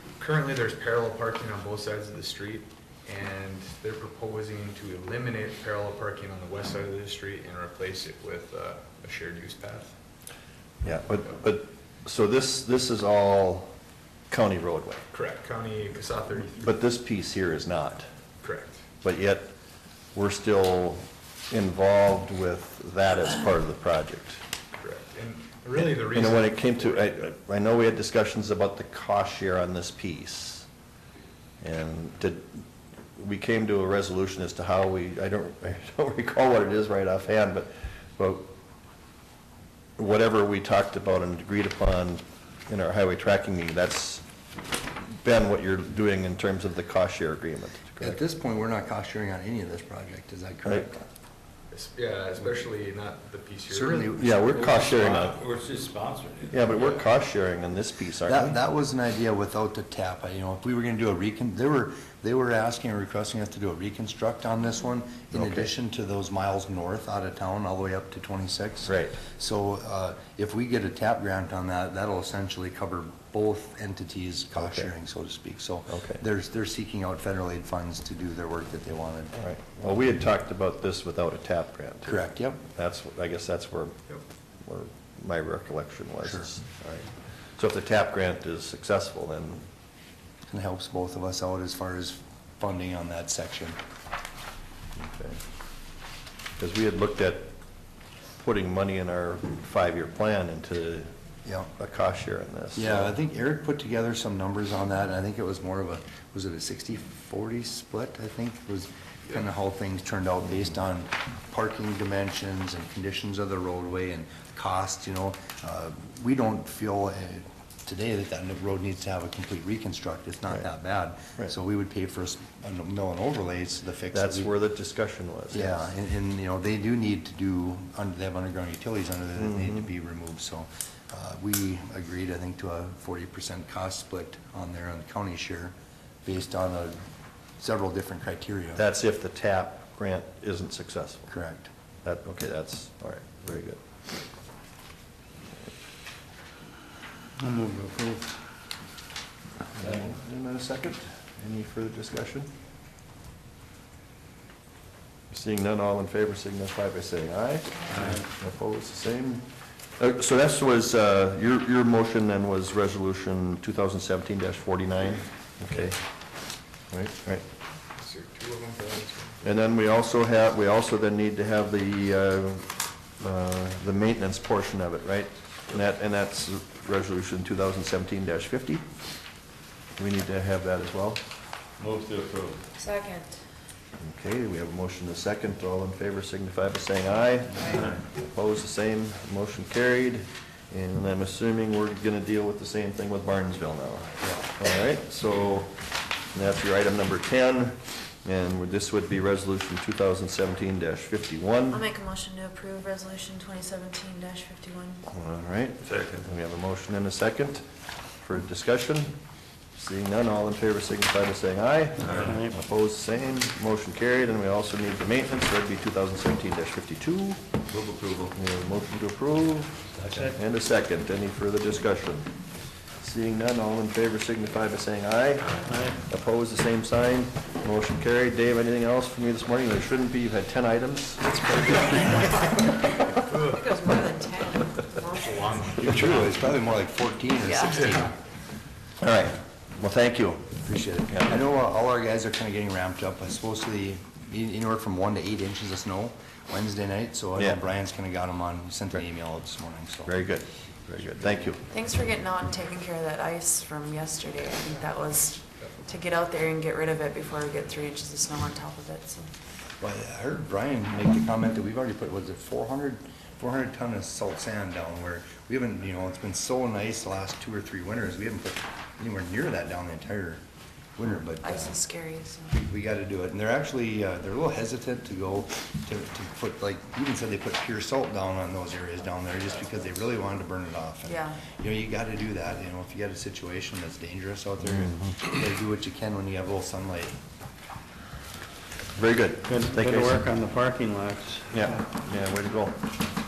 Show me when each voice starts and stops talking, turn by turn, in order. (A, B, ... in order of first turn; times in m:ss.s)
0:00.1-0:10.0 A
0:10.8-0:13.7 B
0:14.3-0:15.0 B
0:15.1-0:16.6 A
0:16.6-0:18.0 B
0:18.4-0:18.8 A
0:19.0-0:19.5 B
0:20.1-0:24.4 B
0:24.7-0:27.0 A
0:25.8-0:30.7 B
0:31.6-0:32.6 B
0:33.2-0:38.5 B
0:40.0-0:44.2 B
0:45.2-0:48.2 B
0:48.0-0:51.0 C
0:50.6-0:50.9 B
0:51.7-0:55.0 A
0:53.7-0:54.8 C
0:54.2-0:55.4 B
0:55.0-0:56.7 D
0:56.5-0:58.6 B
0:58.2-1:19.4 C
1:05.3-1:05.7 B
1:08.8-1:09.2 B
1:14.6-1:14.9 B
1:15.9-1:16.2 B
1:19.4-1:29.6 B
1:22.0-1:22.6 C
1:30.5-1:33.8 C
1:35.0-1:35.4 B
1:36.6-1:37.5 B
1:38.4-1:41.1 B
1:41.7-1:43.1 B
1:42.8-2:04.5 C
2:04.1-2:05.9 B
2:05.5-2:15.7 C
2:09.4-2:09.8 B
2:16.2-2:17.0 C
2:17.6-2:18.8 C
2:18.8-2:21.3 B
2:21.3-2:21.7 C
2:22.0-2:23.8 B
2:27.4-2:28.4 E
2:29.7-2:32.5 B
2:35.3-2:39.5 B
2:40.0-2:46.0 B
2:46.9-2:47.4 B
2:47.9-2:49.4 A
2:49.4-2:58.8 B
3:00.0-3:01.2 B
3:01.8-3:02.6 D
3:02.8-3:03.3 F
3:04.0-3:15.7 B
3:07.6-3:07.9 F
3:16.3-3:21.8 B
3:21.7-3:25.0 F
3:25.1-3:27.6 B
3:25.9-3:26.2 D
3:28.2-3:29.1 B
3:29.8-3:37.4 B
3:32.0-3:32.3 D
3:32.2-3:32.5 E
3:37.8-3:38.1 D
3:38.1-3:42.3 B
3:40.0-3:40.3 D
3:43.0-3:52.1 B
3:45.6-3:46.0 E
3:52.0-3:52.4 A
3:53.1-3:53.6 A
3:53.4-3:55.4 F
3:55.0-3:56.4 A
3:55.8-3:58.1 C
3:57.4-3:57.9 F
3:57.6-3:58.1 A
3:59.0-4:01.4 B
4:00.6-4:10.1 C
4:10.1-4:11.6 B
4:11.7-4:19.3 F
4:19.8-4:30.4 C
4:31.0-4:31.8 C
4:31.4-4:32.6 F
4:32.5-4:47.2 C
4:41.0-4:41.4 F
4:44.6-4:45.1 B
4:49.0-4:50.2 B
4:49.5-4:51.6 E
4:51.5-4:52.8 B